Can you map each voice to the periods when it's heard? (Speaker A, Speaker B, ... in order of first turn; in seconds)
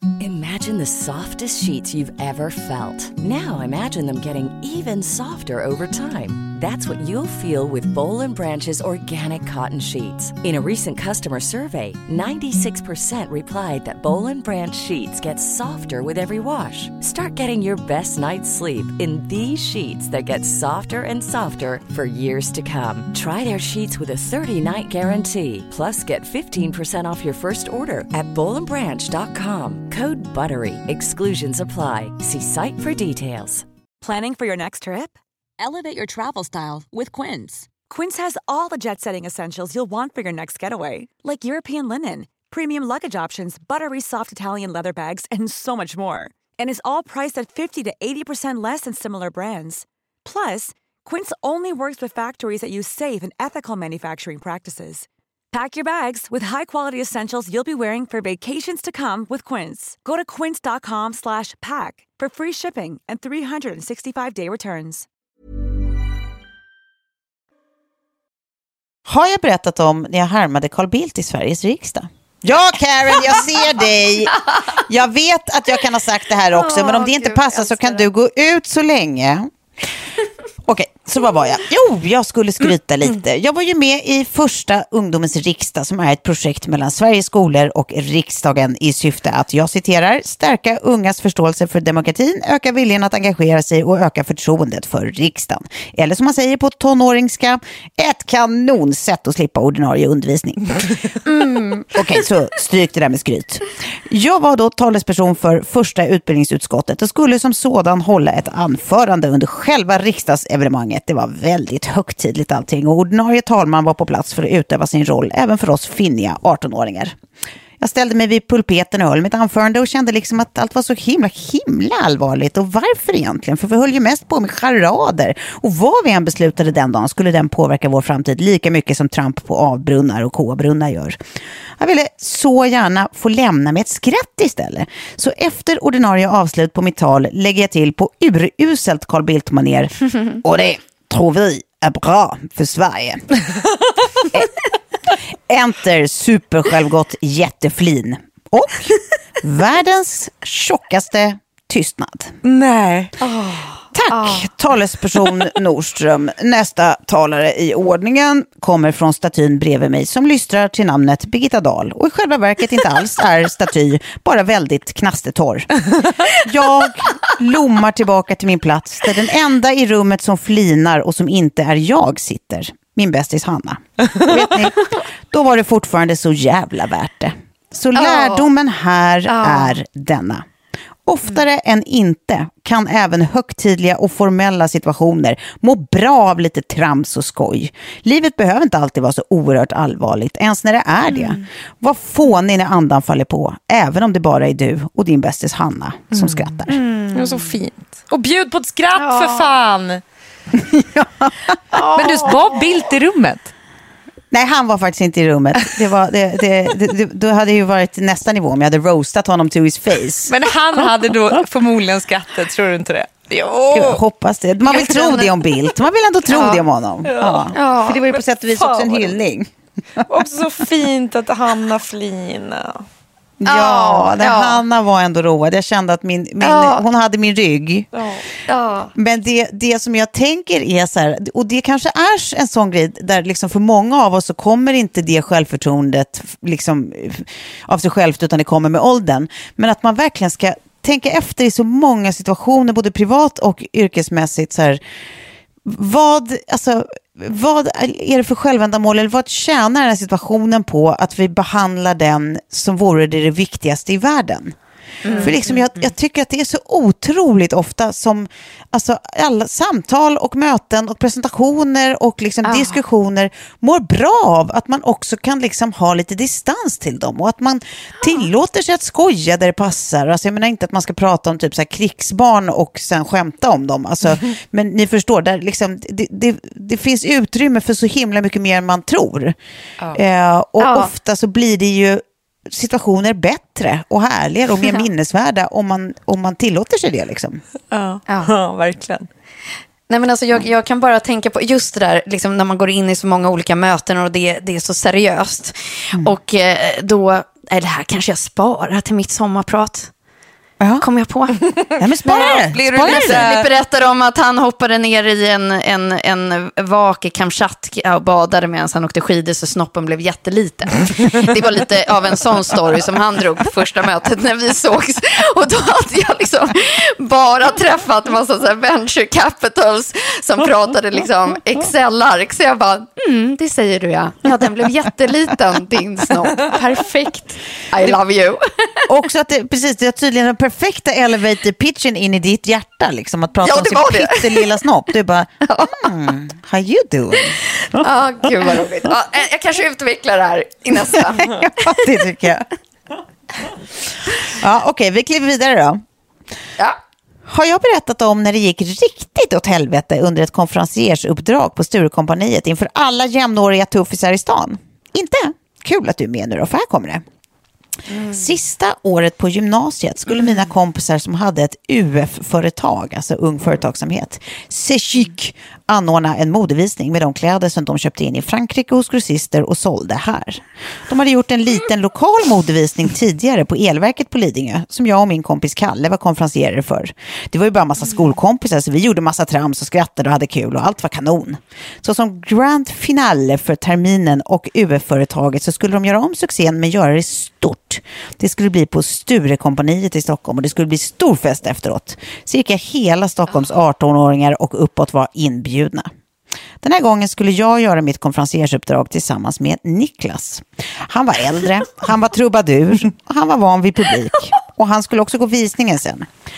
Speaker A: 0.2-33.6
Speaker B: 34.0-65.1
Speaker C: 69.1-79.5, 80.7-117.2, 117.8-131.2, 131.8-143.4, 145.5-152.3, 153.9-180.4, 181.1-196.8, 200.5-201.9, 204.3-210.4, 213.7-220.1, 223.4-227.9, 228.9-244.8, 245.6-254.6, 255.1-279.4, 279.9-287.4, 300.6-300.9, 301.8-303.3, 328.9-338.9, 340.8-342.5, 344.2-345.8, 347.3-357.0, 358.0-395.9, 396.6-406.1
Speaker D: 76.5-78.1, 101.4-101.7, 153.2-154.5, 177.9-178.5, 179.3-179.7, 196.7-197.5, 199.0-199.5, 201.7-202.6, 214.7-215.3, 216.3-216.6, 217.5-218.0, 223.4-224.6, 226.4-226.8, 228.5-228.9, 255.1-255.9, 262.4-262.8, 280.6-280.9, 289.9-299.9, 300.8-328.9, 333.4-334.6, 335.5-335.9, 337.6-341.5, 357.9-358.2
Speaker E: 152.4-153.2, 196.1-200.0, 202.0-203.5, 210.3-214.0, 217.1-219.2, 220.1-222.9, 227.9-228.3, 287.7-289.1, 301.6-303.5